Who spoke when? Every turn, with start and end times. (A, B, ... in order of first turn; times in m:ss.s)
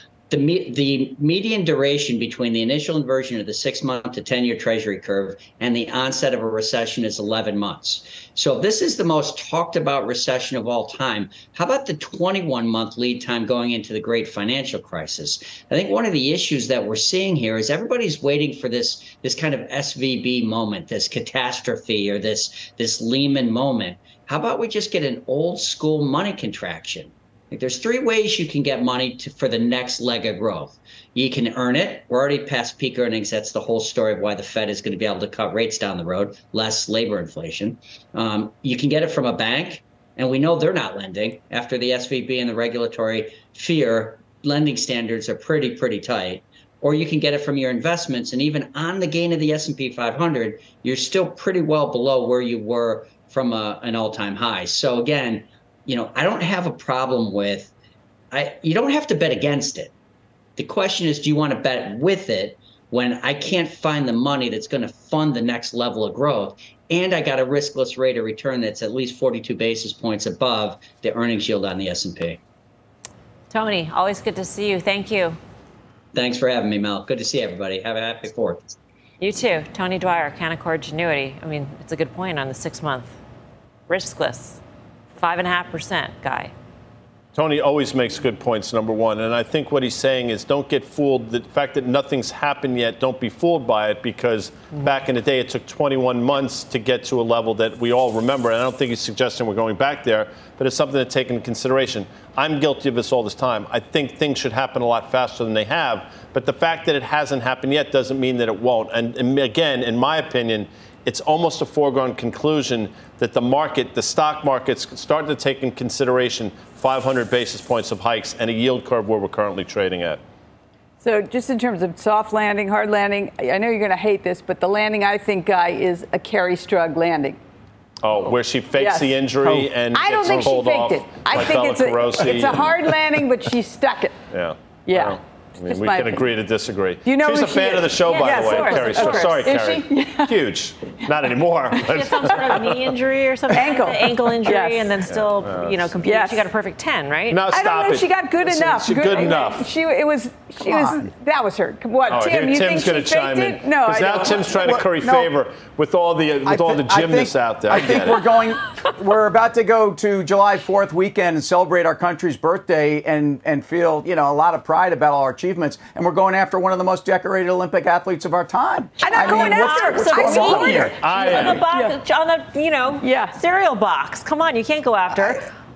0:00.3-0:57.7 A
0:58.3-0:59.9 A
1:00.6-1:12.4 A
1:13.5-1:15.4 B
1:16.1-1:18.6 A
1:19.2-1:23.2 B
1:23.9-1:24.6 B
1:25.2-1:26.5 B
1:27.3-2:00.2 C
2:01.0-2:07.4 D
2:08.0-2:13.0 C
2:08.2-2:14.2 D
2:14.3-2:22.9 C
2:14.9-2:16.3 D
2:17.0-2:20.4 D
2:18.0-2:19.6 B
2:21.8-2:22.7 D
2:21.9-2:27.4 B
2:23.5-2:25.1 D
2:25.1-2:26.0 C
2:26.0-2:26.5 D
2:27.3-2:29.7 C
2:27.5-2:34.9 D
2:30.6-2:31.0 E
2:32.1-2:38.3 C
2:34.9-2:35.3 E
2:36.5-2:50.9 E
2:49.0-2:52.0 D
2:49.0-2:55.4 B
2:51.0-2:51.6 C
2:53.0-2:53.4 D